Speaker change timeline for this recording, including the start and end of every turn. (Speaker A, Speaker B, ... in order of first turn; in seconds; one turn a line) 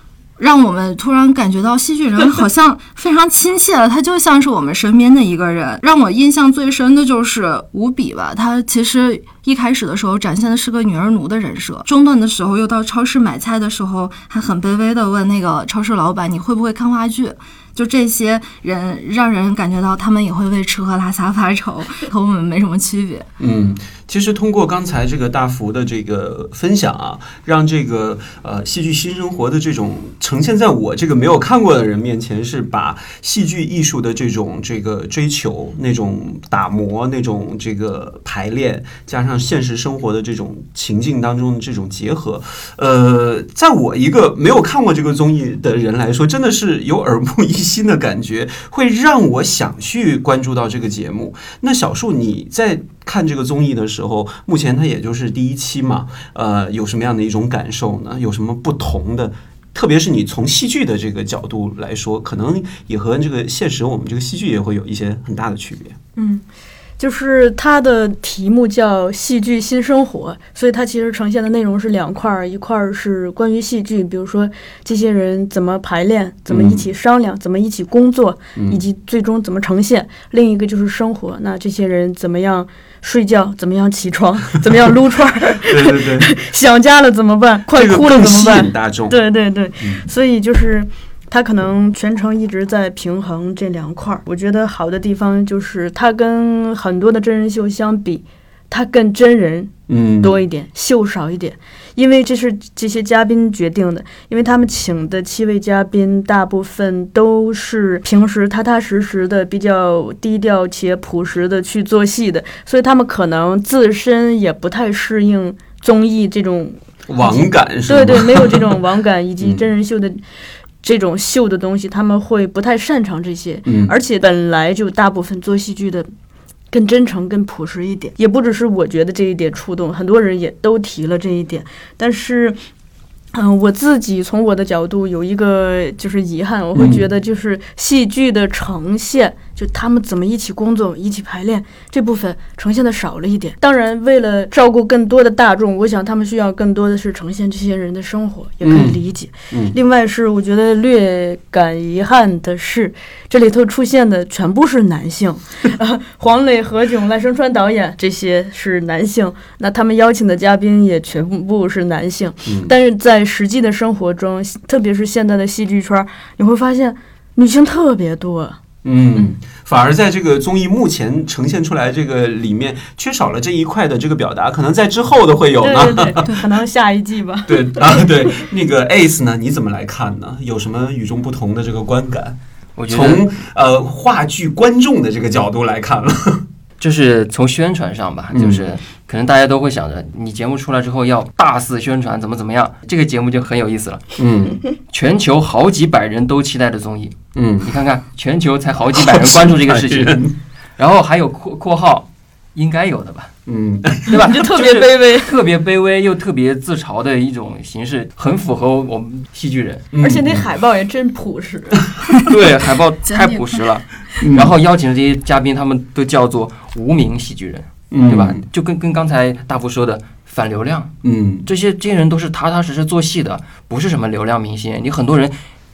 Speaker A: 0.4-23.3
Speaker B: 23.4-66.0
Speaker C: 66.2-66.5
Speaker C: 67.0-120.2
Speaker B: 76.5-76.8
Speaker B: 78.5-78.8
Speaker B: 85.7-86.3
Speaker B: 87.7-89.2
Speaker B: 99.9-100.4
Speaker B: 117.1-118.8
Speaker C: 120.8-126.1
Speaker B: 123.7-123.9
Speaker C: 126.7-132.6
Speaker C: 133.3-168.6
Speaker B: 136.8-137.1
Speaker B: 148.6-149.0
Speaker B: 149.5-149.8
Speaker B: 162.4-162.7
Speaker B: 168.8-176.6
Speaker C: 175.6-178.4
Speaker B: 177.5-182.4
Speaker D: 182.8-183.3
Speaker B: 182.9-186.4
Speaker D: 186.8-194.1
Speaker B: 188.3-188.7
Speaker B: 194.2-194.6
Speaker D: 194.9-200.2
Speaker B: 197.3-197.7
Speaker B: 198.9-200.4
Speaker D: 200.8-203.3
Speaker B: 203.5-204.3
Speaker D: 204.1-209.9
Speaker C: 204.1-205.3
Speaker B: 209.9-210.4
Speaker C: 210.0-211.8
Speaker D: 212.2-220.9
Speaker A: 213.1-213.6
Speaker B: 214.2-214.5
Speaker B: 217.9-218.4
Speaker B: 221.0-221.5
Speaker D: 221.5-225.3